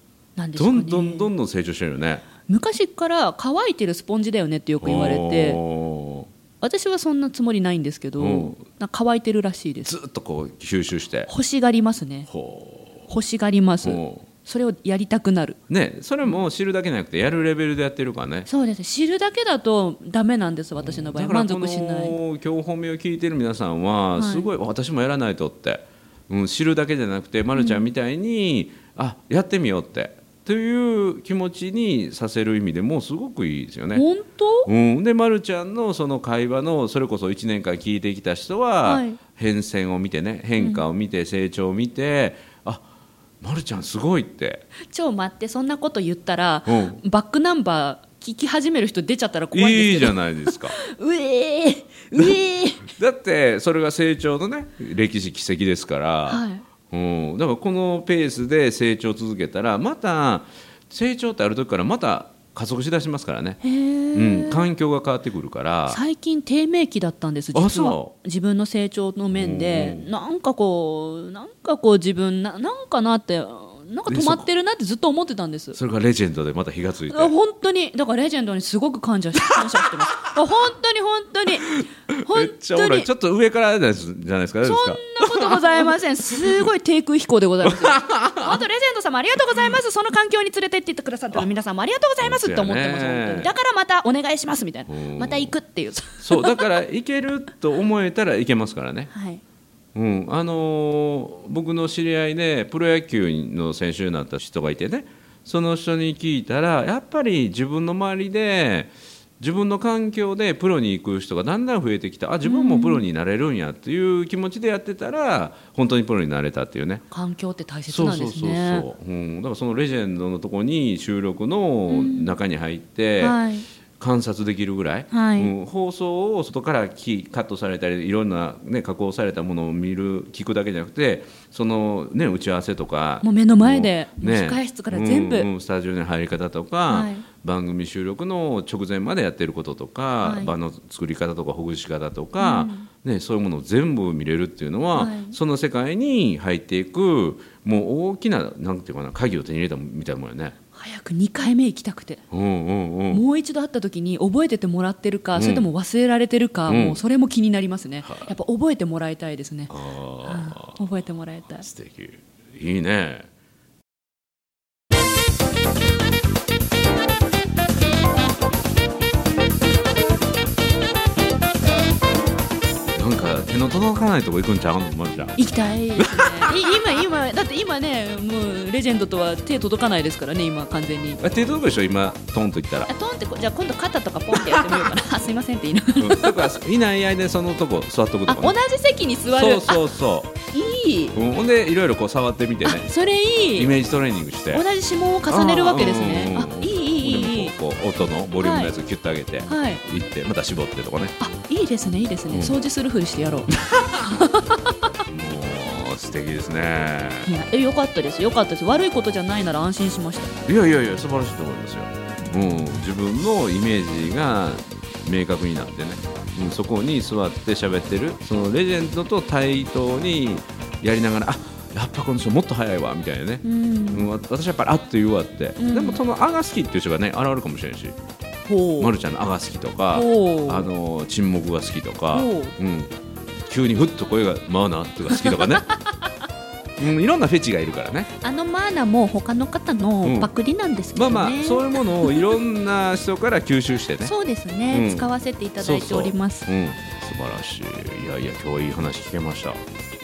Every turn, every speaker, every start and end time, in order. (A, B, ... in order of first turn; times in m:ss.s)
0:00.4-0:01.3 A
0:00.6-0:02.2 B
0:02.4-0:05.6 A
0:04.8-0:06.3 B
0:06.6-0:09.9 A
0:08.2-0:08.6 B
0:09.8-0:11.3 B
0:11.3-0:12.3 A
0:12.3-0:13.1 B
0:13.1-0:15.6 A
0:13.8-0:14.2 B
0:15.7-0:18.5 B
0:18.4-0:22.2 A
0:20.8-0:34.0 B
0:24.2-0:24.5 A
0:27.5-0:27.8 A
0:33.9-0:34.7 A
0:34.6-0:42.8 B
0:38.8-0:39.2 A
0:40.6-0:40.8 A
0:43.4-0:44.6 B
0:44.8-0:52.9 A
0:46.7-0:47.0 B
0:49.5-0:50.8 B
0:52.2-1:03.6 B
0:56.3-0:56.6 A
1:03.6-1:04.7 A
1:04.1-1:06.0 B
1:05.9-1:15.8 A
1:07.5-1:08.1 B
1:09.3-1:10.1 B
1:14.1-1:14.4 B
1:15.7-1:17.3 B
1:17.1-1:23.1 A
1:19.5-1:20.3 B
1:21.6-1:26.7 B
1:24.6-1:36.6 A
1:27.6-1:28.6 B
1:32.2-1:33.5 B
1:34.9-1:35.5 B
1:36.2-1:39.1 B
1:39.1-1:39.4 A
1:39.9-1:57.0 B
1:52.4-1:53.0 A
1:57.1-1:58.9 A
1:57.9-2:03.4 B
2:01.9-2:02.3 A
2:03.2-2:03.6 A
2:04.0-2:30.6 B
2:05.1-2:05.5 A
2:13.2-2:15.5 A
2:16.9-2:17.2 A
2:20.2-2:20.5 A
2:22.4-2:22.9 A
2:24.9-2:25.4 A
2:30.7-2:32.2 A
2:32.3-2:33.2 B
2:33.1-2:39.7 A
2:35.3-2:35.7 B
2:36.7-2:37.0 B
2:38.0-2:38.3 B
2:39.7-2:40.8 B
2:40.2-2:41.7 A
2:41.6-2:43.3 B
2:52.9-2:55.4 B
2:55.4-3:01.2 A
2:56.0-2:57.0 B
3:01.2-3:02.9 B
3:02.9-3:06.4 A
3:04.3-3:04.8 B
3:06.0-3:08.5 B
3:08.3-3:09.8 A
3:09.3-3:10.3 B
3:10.5-3:11.1 A
3:11.1-3:12.9 B
3:12.6-3:13.7 A
3:13.6-3:14.6 B
3:14.5-3:17.5 A
3:15.3-3:21.1 B
3:18.4-3:18.7 A
3:19.4-3:19.8 A
3:21.2-3:23.5 A
3:22.3-3:22.6 B
3:23.5-3:24.2 B
3:24.0-3:24.7 A
3:25.1-3:27.3 B
3:27.2-3:30.3 A
3:30.4-3:48.0 B
3:43.4-3:44.1 A
3:45.6-3:46.0 A
3:48.5-3:48.9 A
3:48.8-3:52.9 B
3:49.9-3:50.7 A
3:52.1-3:52.6 A
3:53.5-3:55.6 B
3:55.1-3:55.9 A
3:56.8-3:58.1 B
3:58.2-4:02.3 A
4:00.0-4:00.3 B
4:00.9-4:04.1 B
4:04.0-4:06.5 A
4:04.7-4:09.6 B